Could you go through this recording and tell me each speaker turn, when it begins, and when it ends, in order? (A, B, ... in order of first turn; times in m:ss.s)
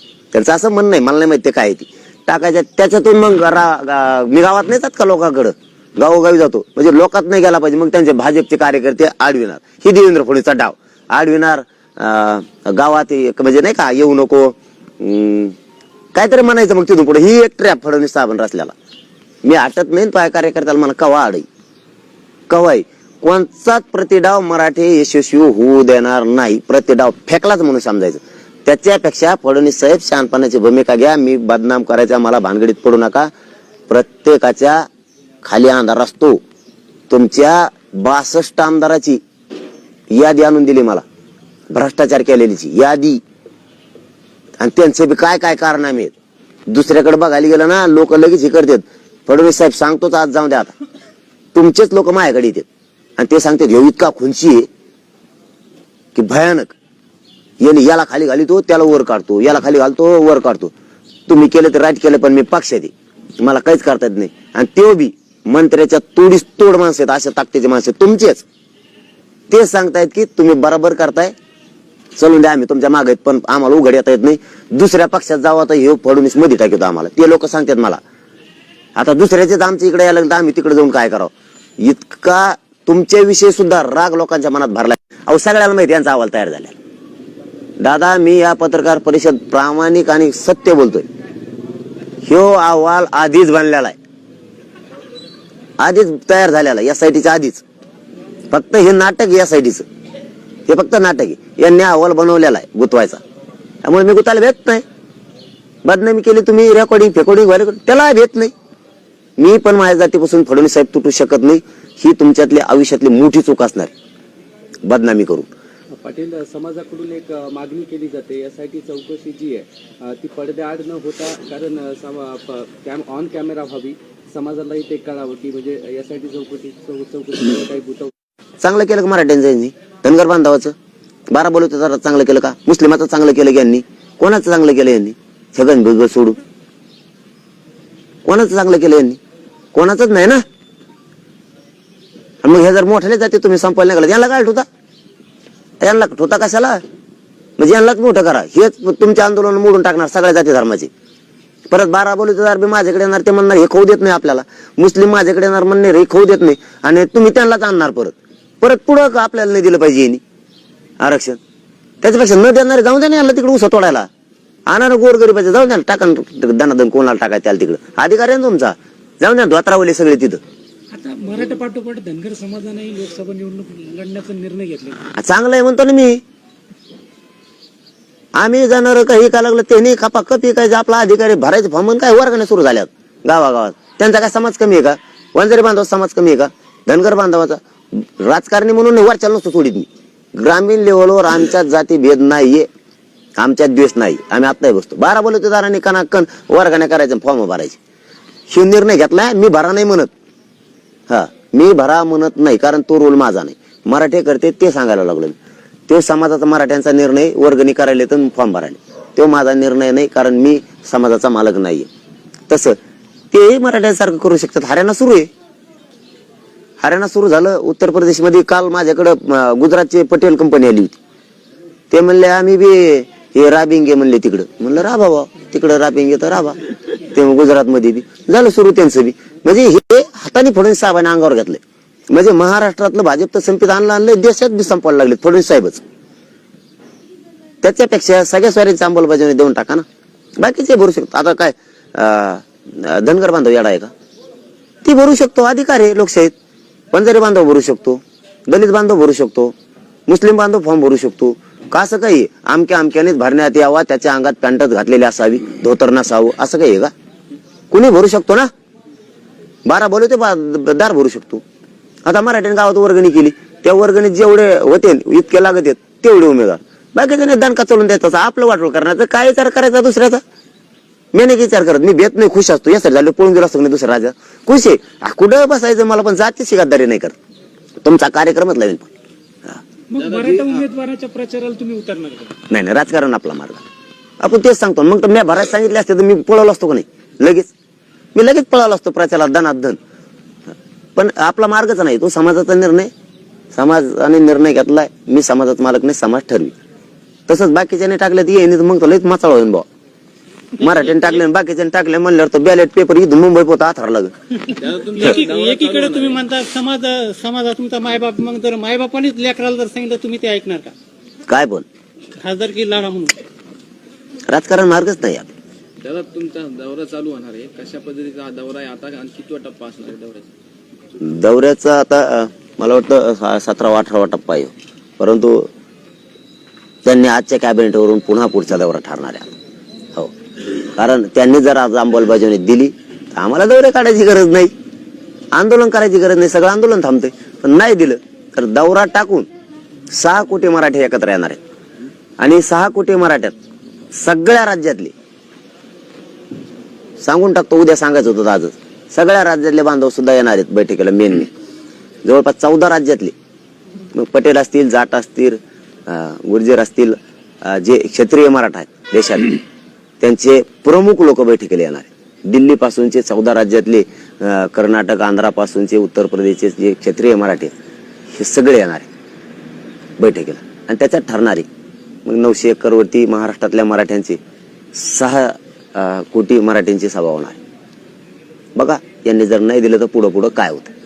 0:00.3-0:15.6 A
0:16.1-0:18.7 A
0:19.4-0:21.5 A
0:22.5-0:33.3 A
0:33.9-0:34.9 A
0:35.4-0:36.4 A
0:37.1-0:39.2 A
0:40.1-0:41.0 A
0:41.7-0:43.2 A
0:44.6-0:46.1 A
0:46.7-0:50.7 A
0:51.5-0:52.6 A
0:53.2-0:54.7 A
0:56.1-0:56.7 A
0:57.6-1:00.7 A
1:01.3-1:08.4 A
1:09.5-1:11.3 A
1:12.2-1:18.0 A
1:19.0-1:26.8 A
1:27.8-1:31.1 A
1:32.2-1:34.0 A
1:35.8-1:37.6 A
1:38.5-1:39.9 A
1:40.7-1:43.2 A
1:43.8-1:44.8 A
1:45.8-1:48.5 A
1:49.4-1:53.9 A
1:54.8-1:55.5 A
1:55.9-2:08.1 B
2:08.6-2:10.8 A
2:11.3-2:16.4 A
2:18.3-2:19.2 A
2:19.7-2:20.4 A
2:22.4-2:24.6 A
2:25.8-2:26.8 A
2:27.6-2:30.9 A
2:31.7-2:40.2 A
2:41.0-2:41.4 A
2:42.0-2:44.1 A
2:44.7-2:50.4 A
2:50.9-2:55.1 C
2:55.2-2:56.2 A
2:58.4-3:12.7 A
3:13.4-3:17.8 A
3:18.5-3:20.1 A
3:21.1-3:25.4 A
3:25.9-3:31.9 A
3:32.5-3:32.8 A
3:33.3-3:35.3 A
3:36.8-3:41.0 A
3:41.9-3:55.8 A
3:57.6-3:59.8 A
4:00.4-4:03.9 A
4:04.8-4:06.3 A
4:06.9-4:09.5 A
4:10.1-4:16.9 A
4:17.7-4:18.5 A
4:19.6-4:21.4 A
4:22.1-4:30.2 A
4:31.1-4:37.2 A
4:37.8-4:38.9 A
4:39.9-4:42.4 C
4:40.0-4:40.6 D
4:42.5-4:43.6 A
4:44.2-4:47.5 A
4:48.1-4:49.8 A
4:51.0-4:52.9 A
4:53.5-4:56.6 A
4:57.3-4:59.7 A
5:00.6-5:04.1 A
5:04.6-5:06.2 D
5:04.9-5:10.7 E
5:11.3-5:11.6 A
5:12.2-5:13.2 E
5:14.3-5:15.3 A
5:15.8-5:20.3 D
5:21.0-5:25.5 A
5:26.8-5:29.3 A
5:30.7-5:34.5 A
5:35.3-5:39.3 A
5:39.9-5:41.4 A
5:42.2-5:43.4 A
5:43.9-5:44.9 A
5:47.0-5:51.3 A
5:52.0-5:53.1 A
5:53.9-5:59.4 A
6:00.0-6:07.5 A
6:08.1-6:08.9 A
6:10.0-6:11.5 A
6:12.1-6:14.2 A
6:14.7-6:17.4 A
6:18.6-6:20.7 A